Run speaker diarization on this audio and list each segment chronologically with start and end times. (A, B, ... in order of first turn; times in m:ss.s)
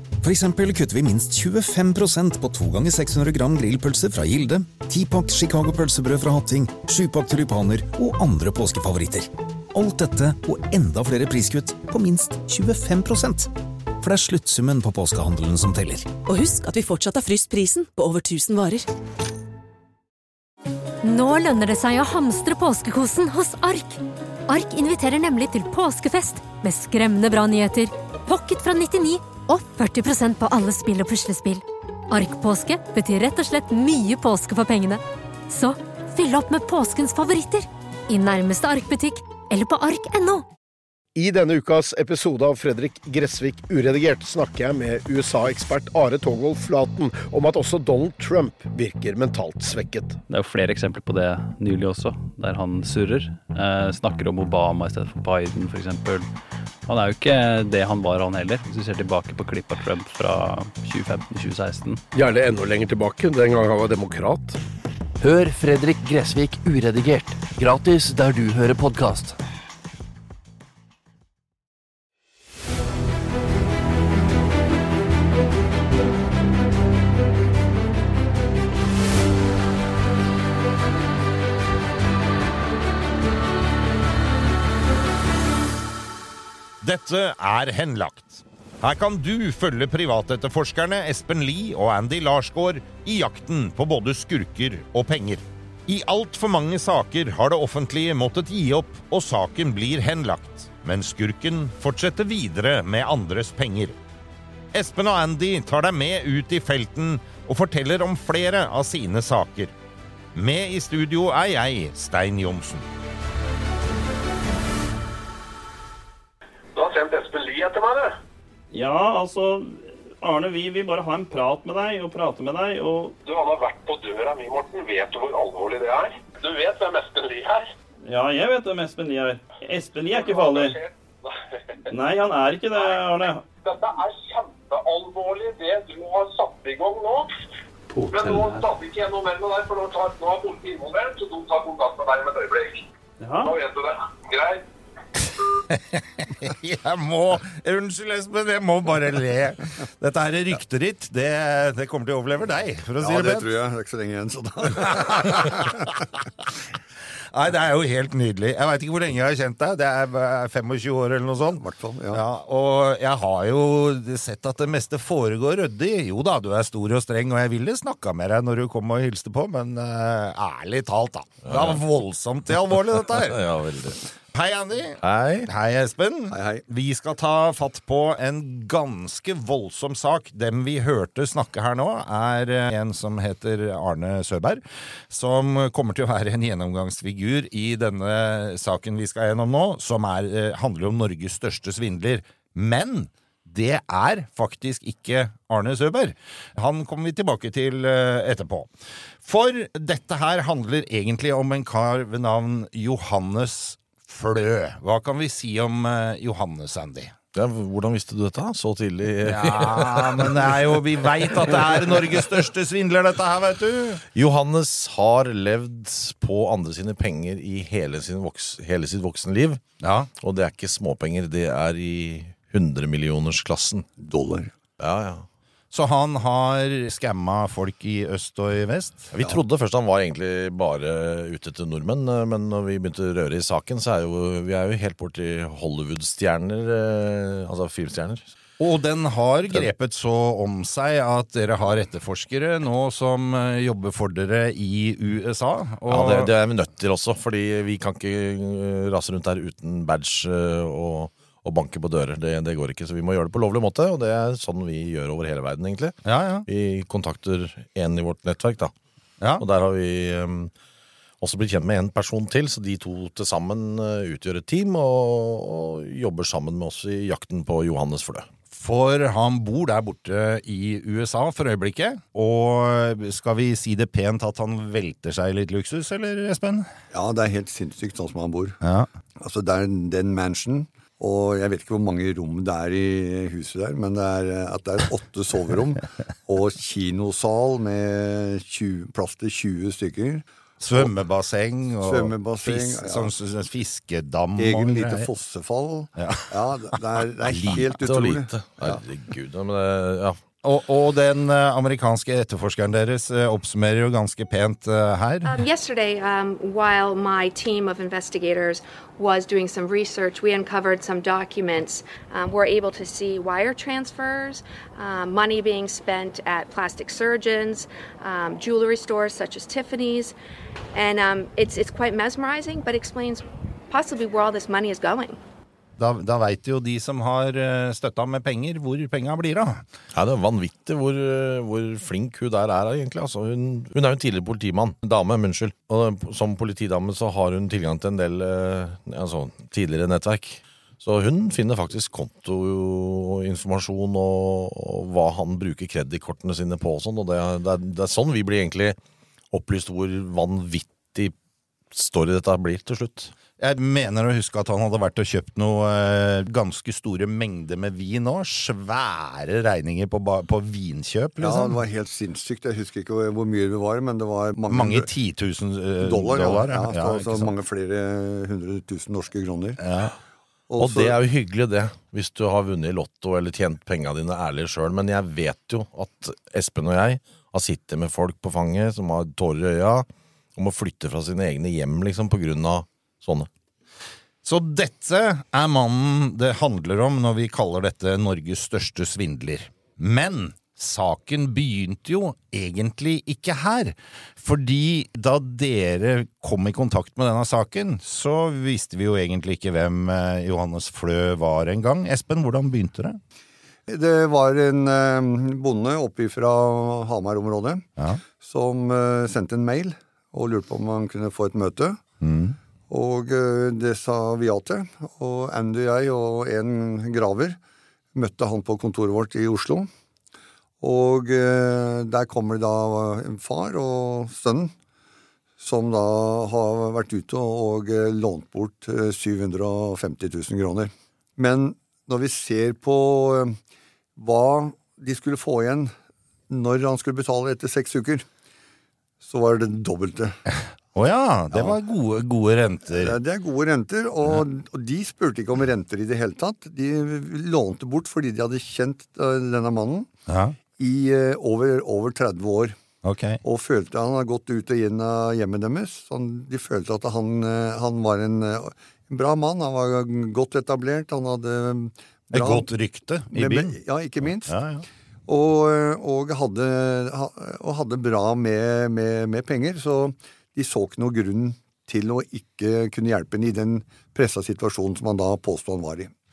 0:00.2-0:16.1 A
0:16.2-0:18.9 B
0:21.0-0:40.4 C
0:41.1-0:50.2 D
0:50.3-0:56.3 E
0:56.8-1:02.0 E
1:02.1-1:04.6 D
1:05.2-1:09.4 F
1:26.8-1:44.0 G
1:44.7-1:49.7 G
1:50.3-1:52.8 G
1:56.7-1:58.1 H
1:58.7-2:03.1 I
2:03.2-2:07.6 H
2:08.0-2:10.8 I
2:10.0-2:11.3 H
2:11.9-2:13.4 I
2:13.6-2:17.3 H
2:18.1-2:22.8 H
2:23.2-2:23.5 I
2:23.3-2:24.6 H
2:25.7-2:33.5 G
2:33.0-2:36.0 J
2:34.7-2:35.8 G
2:37.3-2:53.4 G
2:41.6-2:42.2 J
2:51.4-2:51.8 K
2:53.0-2:54.0 K
2:54.3-3:18.7 G
2:55.0-2:55.5 K
2:56.3-2:56.6 J
3:19.2-3:27.1 G
3:27.3-3:31.7 K
3:29.2-3:34.0 G
3:34.1-3:39.6 K
3:39.8-3:40.1 G
3:40.2-3:43.9 K
3:44.0-3:44.5 J
3:44.8-3:45.2 K
3:45.7-3:49.1 G
3:49.1-3:58.3 K
3:58.6-4:06.3 G
4:05.9-4:18.7 K
4:16.0-4:16.4 G
4:19.2-4:19.4 G
4:19.4-4:20.5 K
4:21.2-4:28.3 K
4:28.5-4:36.7 G
4:36.9-4:38.6 J
4:38.6-4:38.9 G
4:39.2-4:50.9 J
4:50.6-4:55.1 G
4:51.8-4:53.1 J
4:54.4-4:58.8 J
4:56.0-4:56.3 G
4:57.2-4:57.8 G
4:57.8-5:00.2 K
5:00.4-5:05.4 G
5:05.2-5:20.1 L
5:20.7-5:25.2 L
5:25.8-5:29.6 G
5:29.9-5:48.8 K
5:49.3-5:51.1 K
5:51.7-5:53.1 K
5:53.4-6:01.6 G
6:01.2-6:04.9 J
6:04.5-6:07.3 G
6:05.8-6:09.6 J
6:09.6-6:09.9 G
6:10.5-6:11.0 J
6:10.6-6:23.3 K
6:24.2-6:43.0 G
6:43.7-6:47.7 J
6:48.2-6:51.8 J
6:52.0-6:52.4 G
6:52.7-6:57.4 J
6:57.9-6:59.7 J
7:00.6-7:04.5 J
7:05.4-7:13.4 J
7:14.0-7:15.7 J
7:16.3-7:18.0 J
7:19.0-7:20.2 J
7:20.7-7:23.0 G
7:22.7-7:29.9 J
7:30.1-7:30.4 G
7:30.6-7:32.5 J
7:32.8-7:33.2 G
7:33.2-7:42.5 J
7:42.1-7:43.5 G
7:43.1-7:44.4 J
7:44.2-7:44.6 G
7:45.1-7:55.9 J